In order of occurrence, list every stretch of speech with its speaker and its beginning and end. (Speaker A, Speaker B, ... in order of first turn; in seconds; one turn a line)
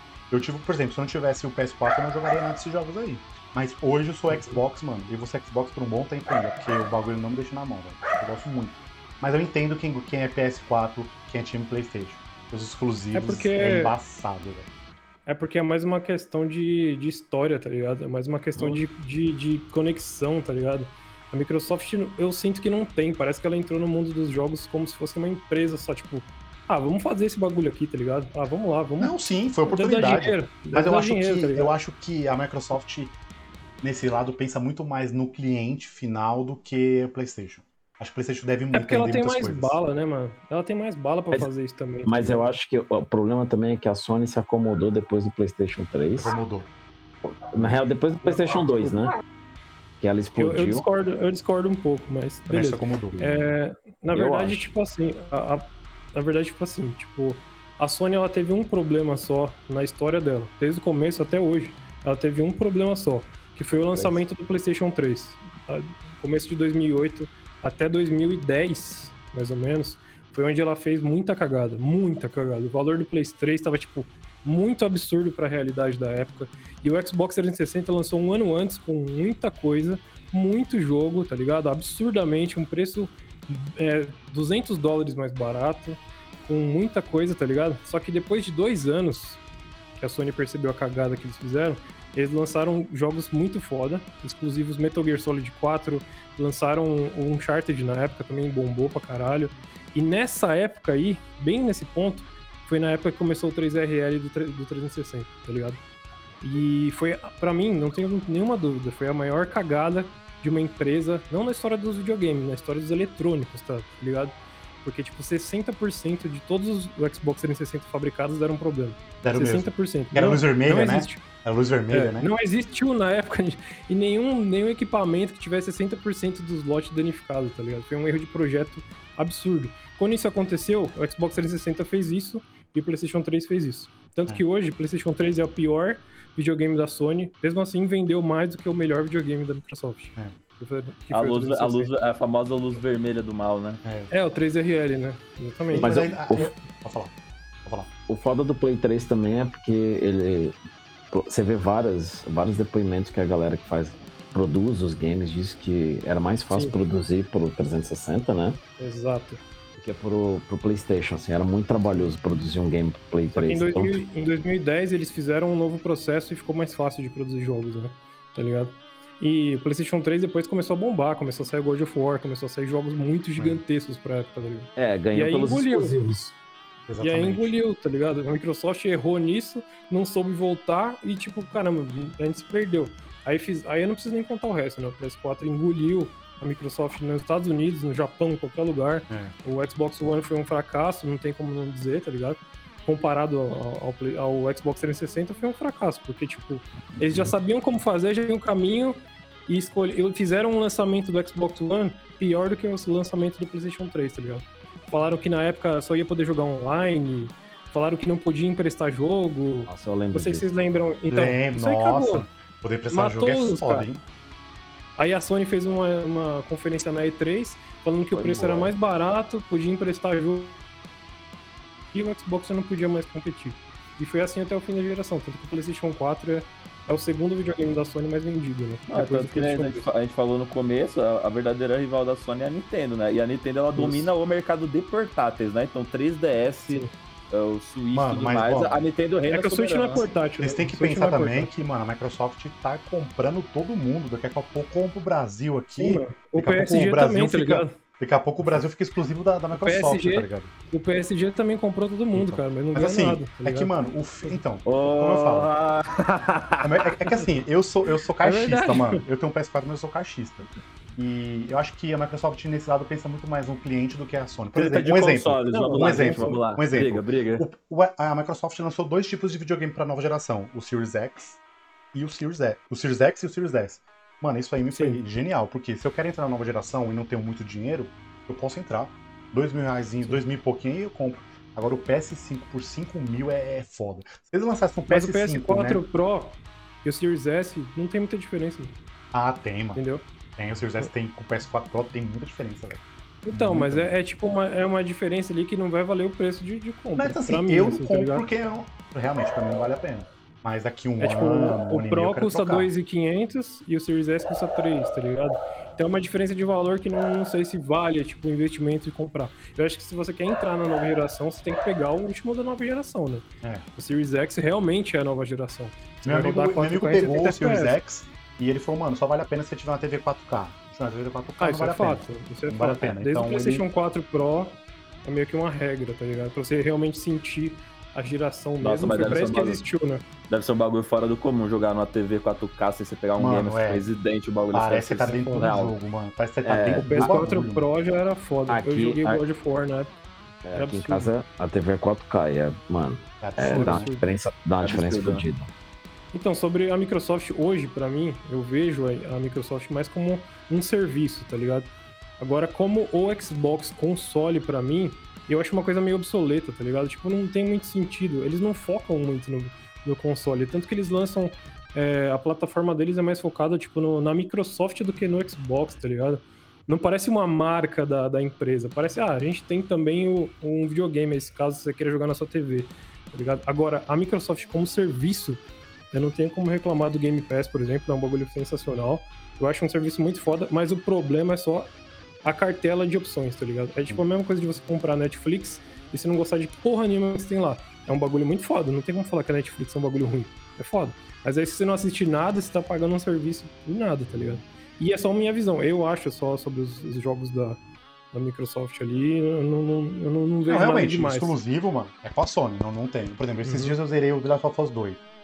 Speaker A: 0.3-14.7
Speaker B: 4.3-4.6
Speaker B: 13.1-13.9
Speaker B: 15.2-29.1
Speaker A: 29.0-33.1
Speaker B: 29.7-31.7
Speaker A: 33.8-39.8
Speaker B: 38.7-42.5
Speaker C: 42.0-46.3
Speaker A: 46.1-46.7
Speaker C: 47.2-49.1
Speaker B: 48.2-49.0
Speaker C: 50.0-50.9
Speaker B: 50.4-89.4
Speaker A: 52.5-53.2
Speaker C: 54.1-54.7
Speaker C: 63.9-64.2
Speaker B: 90.0-105.8
Speaker B: 106.4-114.3
Speaker B: 114.8-121.2
Speaker A: 119.2-122.3
Speaker B: 121.9-141.9
Speaker D: 141.1-143.8
Speaker A: 143.8-144.1
Speaker B: 144.1-145.9
Speaker A: 145.7-147.1
Speaker C: 145.7-146.5
Speaker C: 148.1-150.5
Speaker C: 151.1-158.6
Speaker B: 156.5-156.8
Speaker B: 158.8-159.4
Speaker C: 159.8-164.0
Speaker B: 163.3-175.9
Speaker A: 173.3-173.6
Speaker C: 174.8-176.3
Speaker A: 176.9-177.5
Speaker B: 177.0-212.2
Speaker A: 189.1-189.3
Speaker C: 209.7-210.5
Speaker A: 211.1-214.0
Speaker B: 212.9-213.9
Speaker B: 215.0-220.6
Speaker C: 218.2-218.7
Speaker B: 221.9-229.9
Speaker D: 228.9-240.1
Speaker B: 233.7-234.1
Speaker A: 237.9-238.8
Speaker B: 239.3-241.5
Speaker A: 240.4-250.5
Speaker B: 245.8-247.7
Speaker B: 249.5-254.4
Speaker A: 252.1-255.5
Speaker D: 254.6-256.9
Speaker A: 256.6-271.4
Speaker B: 258.2-259.0
Speaker D: 264.6-267.4
Speaker B: 265.5-266.4
Speaker A: 271.9-285.8
Speaker B: 274.7-275.0
Speaker B: 284.9-288.7
Speaker A: 289.1-289.8
Speaker B: 289.8-290.0
Speaker A: 290.4-293.9
Speaker B: 293.2-298.3
Speaker A: 296.9-302.7
Speaker B: 301.0-317.8
Speaker A: 316.0-323.7
Speaker B: 321.4-330.0
Speaker D: 328.6-329.6
Speaker D: 330.3-335.7
Speaker A: 333.2-333.9
Speaker A: 334.5-337.6
Speaker B: 335.1-335.4
Speaker C: 336.4-337.2
Speaker B: 336.7-339.9
Speaker C: 338.5-339.2
Speaker C: 340.4-345.5
Speaker B: 340.5-341.1
Speaker A: 343.2-343.9
Speaker B: 343.4-344.1
Speaker D: 344.6-345.2
Speaker B: 346.1-375.4
Speaker B: 375.9-381.7
Speaker B: 382.2-397.6
Speaker B: 398.1-401.4
Speaker A: 400.4-405.0
Speaker B: 403.4-403.8